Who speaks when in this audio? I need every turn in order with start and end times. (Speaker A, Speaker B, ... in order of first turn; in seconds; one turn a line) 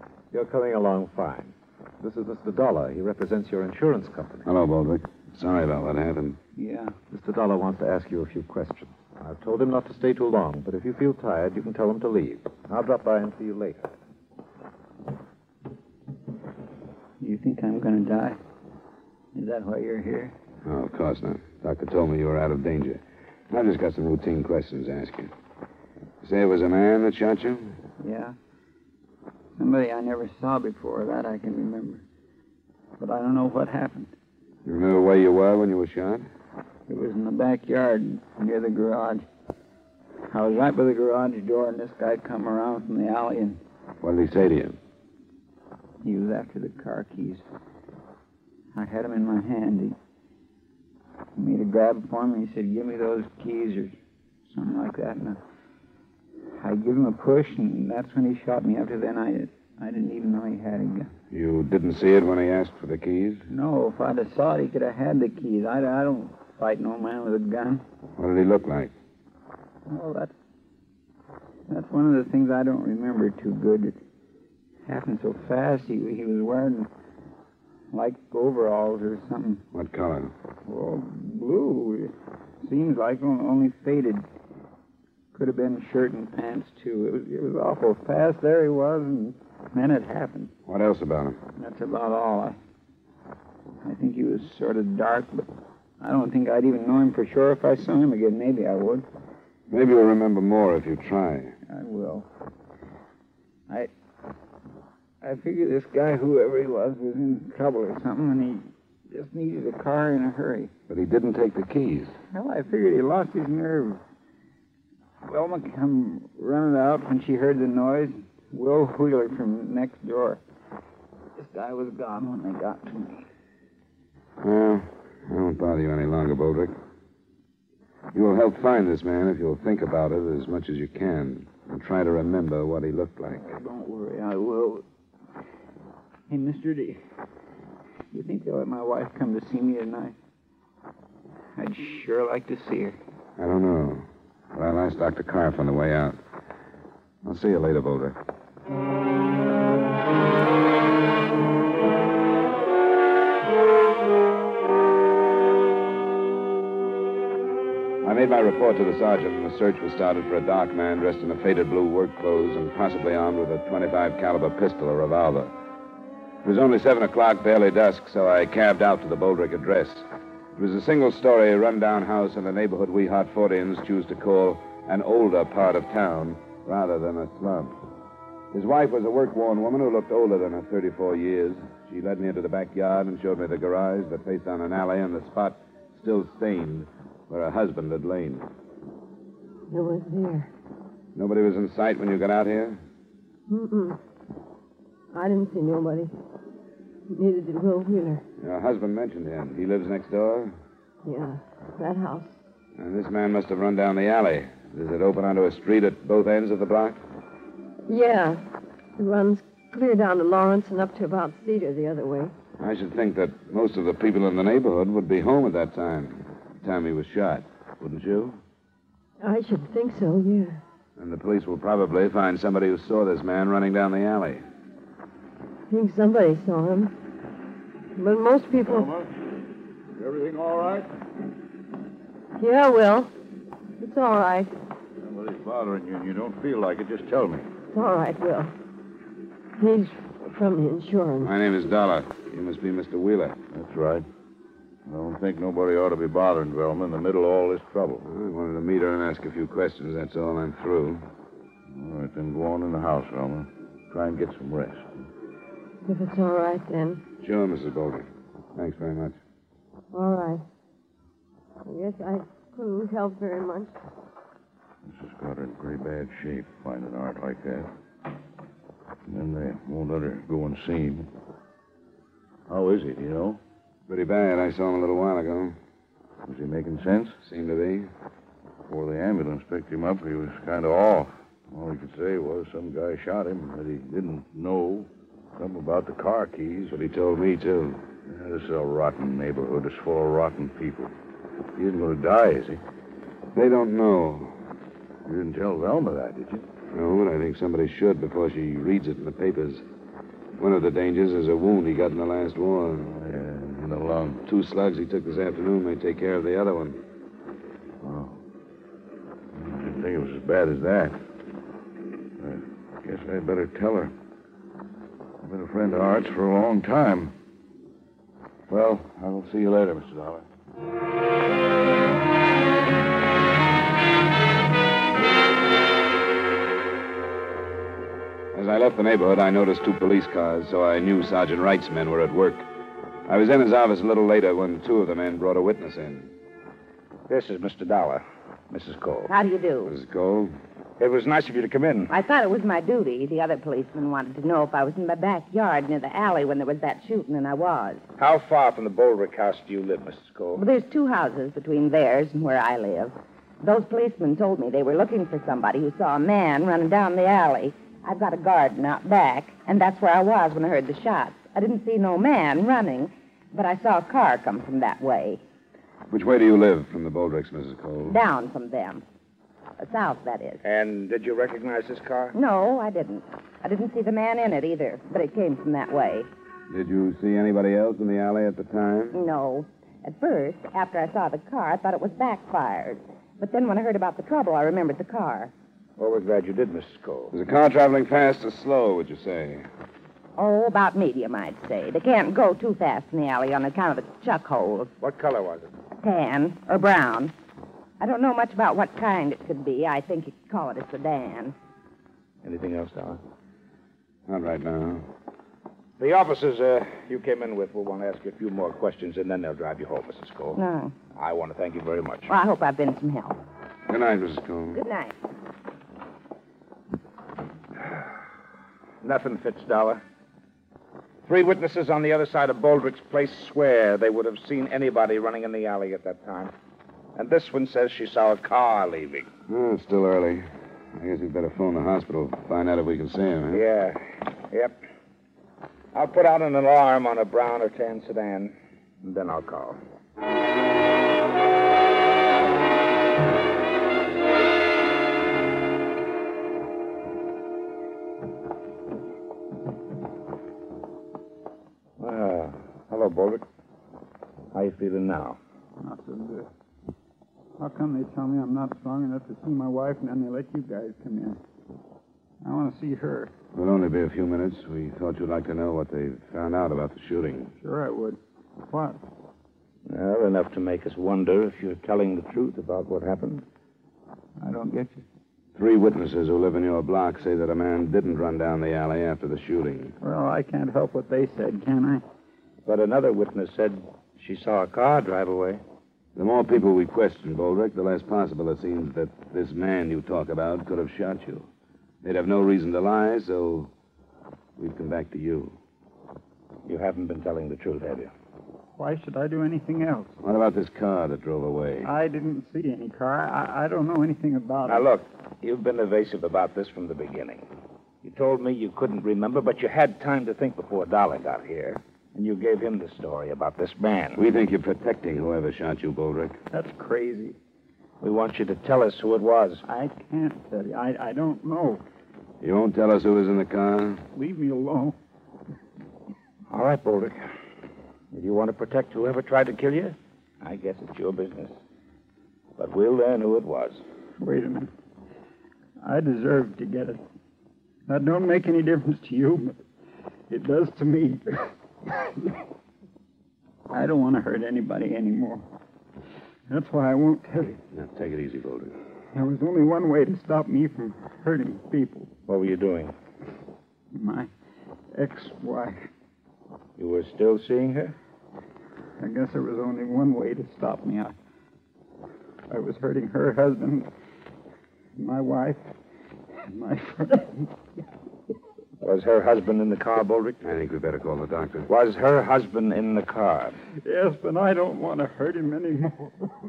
Speaker A: 0.3-4.5
Speaker B: 4.4-6.4
Speaker C: 6.5-6.9
Speaker A: 7.1-13.9
Speaker C: 17.2-18.4
Speaker C: 19.3-20.3
Speaker B: 20.6-25.3
Speaker B: 26.2-27.8
Speaker C: 28.0-28.3
Speaker C: 29.6-32.0
Speaker C: 33.0-34.1
Speaker B: 34.6-36.3
Speaker C: 36.9-39.2
Speaker C: 40.3-43.6
Speaker B: 44.0-44.8
Speaker C: 46.0-47.4
Speaker C: 48.7-50.0
Speaker C: 51.4-53.9
Speaker C: 54.5-55.4
Speaker C: 56.5-61.1
Speaker B: 61.3-63.4
Speaker C: 63.5-67.8
Speaker B: 68.2-68.9
Speaker C: 69.9-70.3
Speaker C: 71.7-74.0
Speaker C: 74.8-76.9
Speaker C: 77.9-79.6
Speaker B: 79.7-80.3
Speaker C: 80.7-84.2
Speaker C: 85.3-90.5
Speaker B: 90.7-91.4
Speaker C: 91.6-92.6
Speaker C: 93.8-95.5
Speaker C: 96.0-99.0
Speaker B: 99.7-101.5
Speaker C: 101.7-102.2
Speaker C: 105.2-110.7
Speaker B: 110.9-112.2
Speaker C: 112.3-114.0
Speaker C: 115.2-120.4
Speaker C: 121.4-123.3
Speaker B: 124.4-126.7
Speaker B: 128.1-133.6
Speaker C: 133.4-134.8
Speaker C: 136.3-137.0
Speaker C: 138.1-140.2
Speaker C: 141.5-143.0
Speaker B: 143.4-146.2
Speaker B: 147.2-148.2
Speaker B: 158.0-165.5
Speaker B: 166.4-177.8
Speaker B: 178.5-188.5
Speaker D: 189.7-190.5
Speaker B: 191.1-192.8
Speaker D: 193.5-194.0
Speaker D: 195.1-196.1
Speaker D: 197.1-198.2
Speaker B: 198.4-200.5
Speaker D: 201.0-202.4
Speaker B: 202.8-207.0
Speaker D: 207.9-208.4
Speaker D: 209.0-212.3
Speaker B: 212.6-218.4
Speaker D: 219.2-220.6
Speaker B: 221.0-224.4
Speaker D: 225.7-226.9
Speaker D: 228.0-228.9
Speaker E: 228.6-229.1
Speaker E: 229.9-230.9
Speaker D: 232.4-233.1
Speaker D: 233.8-234.5
Speaker E: 235.0-237.5
Speaker D: 237.7-238.5
Speaker D: 239.6-241.3
Speaker B: 241.2-243.4
Speaker E: 243.5-244.1
Speaker E: 244.8-248.1
Speaker B: 248.0-251.0
Speaker E: 251.7-254.9
Speaker D: 255.8-257.0
Speaker B: 257.2-259.2
Speaker D: 259.9-260.4
Speaker D: 261.6-263.7
Speaker E: 264.8-267.7
Speaker E: 269.1-271.1
Speaker E: 272.5-273.4
Speaker B: 273.9-275.6
Speaker E: 276.2-277.2
Speaker B: 277.2-277.9
Speaker E: 278.7-286.8
Speaker B: 286.7-287.8
Speaker E: 288.1-290.9
Speaker E: 291.6-292.6
Speaker B: 293.3-294.4
Speaker E: 295.0-296.4
Speaker B: 296.7-299.6
Speaker B: 300.4-302.9
Speaker E: 302.9-304.2
Speaker B: 304.2-306.8
Speaker E: 307.8-308.2
Speaker E: 309.3-311.0
Speaker E: 312.2-313.9
Speaker E: 315.2-317.1
Speaker E: 318.5-320.2
Speaker B: 328.3-332.4
Speaker B: 333.1-336.1
Speaker F: 337.1-339.1
Speaker G: 339.1-339.7
Speaker B: 339.6-340.3
Speaker F: 340.8-341.9
Speaker G: 341.9-347.9
Speaker F: 348.0-350.4
Speaker G: 350.4-365.2
Speaker B: 365.9-368.0
Speaker G: 367.8-368.8
Speaker G: 369.6-370.4
Speaker F: 370.4-372.1
Speaker G: 372.1-376.1
Speaker B: 376.5-379.0
Speaker G: 378.9-385.3
Speaker F: 385.8-387.1
Speaker B: 387.1-389.5
Speaker G: 390.2-394.7
Speaker F: 394.8-395.5
Speaker G: 395.8-397.1
Speaker G: 397.8-401.3
Speaker F: 402.2-403.0
Speaker B: 404.1-404.9
Speaker F: 405.8-410.4
Speaker G: 410.3-410.7
Speaker F: 410.9-412.1
Speaker G: 412.1-413.2
Speaker B: 413.7-414.6
Speaker G: 414.5-414.9
Speaker F: 418.8-419.8
Speaker F: 421.0-426.3
Speaker F: 426.9-429.1
Speaker B: 429.3-433.4
Speaker F: 433.3-434.6
Speaker F: 435.7-439.6
Speaker F: 451.8-453.2
Speaker F: 454.3-455.2
Speaker C: 455.6-456.3
Speaker C: 457.4-461.2
Speaker C: 462.2-463.1
Speaker B: 463.3-467.3
Speaker C: 467.4-468.8
Speaker F: 469.7-473.2
Speaker C: 474.2-474.8
Speaker B: 475.4-479.8
Speaker C: 479.8-481.8
Speaker F: 482.4-485.4
Speaker B: 485.9-491.3
Speaker B: 491.8-493.5
Speaker B: 494.4-495.4
Speaker F: 496.4-497.9
Speaker C: 498.6-499.9
Speaker B: 500.0-501.7
Speaker C: 501.6-504.6
Speaker F: 504.5-507.2
Speaker F: 507.8-514.0
Speaker B: 514.0-516.2
Speaker C: 516.3-517.2
Speaker F: 517.8-519.4
Speaker C: 519.4-521.6
Speaker B: 522.2-523.8
Speaker C: 523.9-524.8
Speaker F: 526.3-527.0
Speaker F: 527.9-531.3
Speaker F: 532.4-533.6
Speaker C: 534.0-534.5
Speaker C: 535.6-536.8
Speaker C: 537.7-539.4
Speaker C: 540.1-541.3
Speaker C: 543.5-545.2
Speaker C: 546.3-547.4
Speaker B: 547.5-548.5
Speaker C: 548.9-551.9
Speaker F: 552.1-552.7
Speaker C: 553.7-554.1
Speaker C: 554.7-555.6
Speaker F: 556.6-557.8
Speaker C: 558.8-560.9
Speaker C: 562.3-563.7
Speaker C: 564.8-565.5
Speaker C: 566.3-567.3
Speaker F: 568.6-570.2
Speaker B: 570.2-571.5
Speaker F: 571.5-573.4
Speaker C: 573.6-576.1